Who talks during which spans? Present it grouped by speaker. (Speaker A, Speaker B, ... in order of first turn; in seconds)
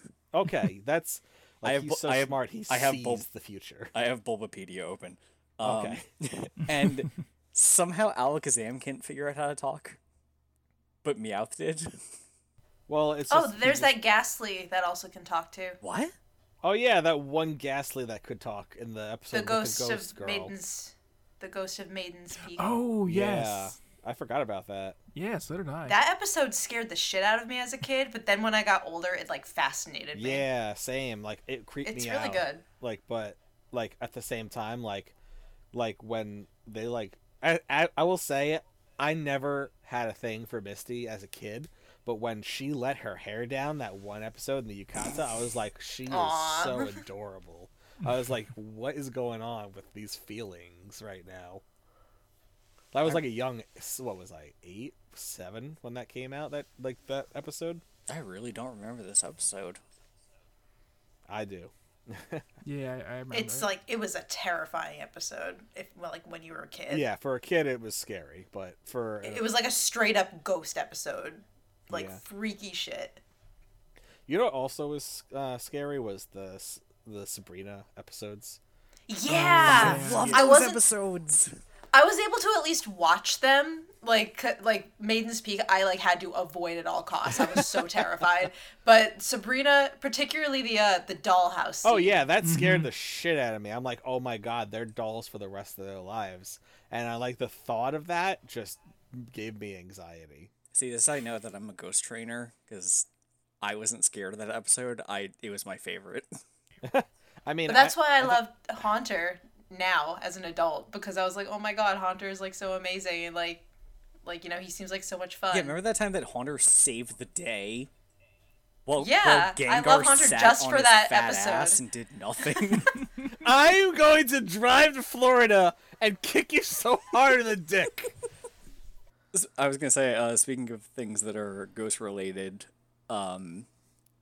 Speaker A: 0.3-3.9, 5.6-6.0, 12.9-13.9, 16.6-20.5, 23.1-25.0, 30.1-35.1, 35.7-51.6, 52.9-57.8, 61.3-62.5, 66.9-69.5, 71.9-72.2, 74.3-78.6, 79.7-80.4, 91.8-100.5, 106.8-108.4, 123.3-128.1
Speaker B: 1.6-3.3, 3.9-10.0, 11.0-12.0, 15.8-16.1, 58.1-59.8, 79.7-81.5, 100.7-103.1, 103.6-106.4, 115.5-117.9, 118.9-123.1, 129.3-133.7
Speaker C: 13.3-15.8, 19.3-22.8, 25.9-30.4, 31.9-32.6, 46.1-47.0, 63.3-67.0, 69.2-73.2, 79.1-80.8, 81.9-92.2, 107.7-113.7, 114.2-115.8, 119.0-121.8
Speaker D: 22.6-23.7, 25.1-26.0, 62.6-63.7, 79.3-80.3, 92.4-92.9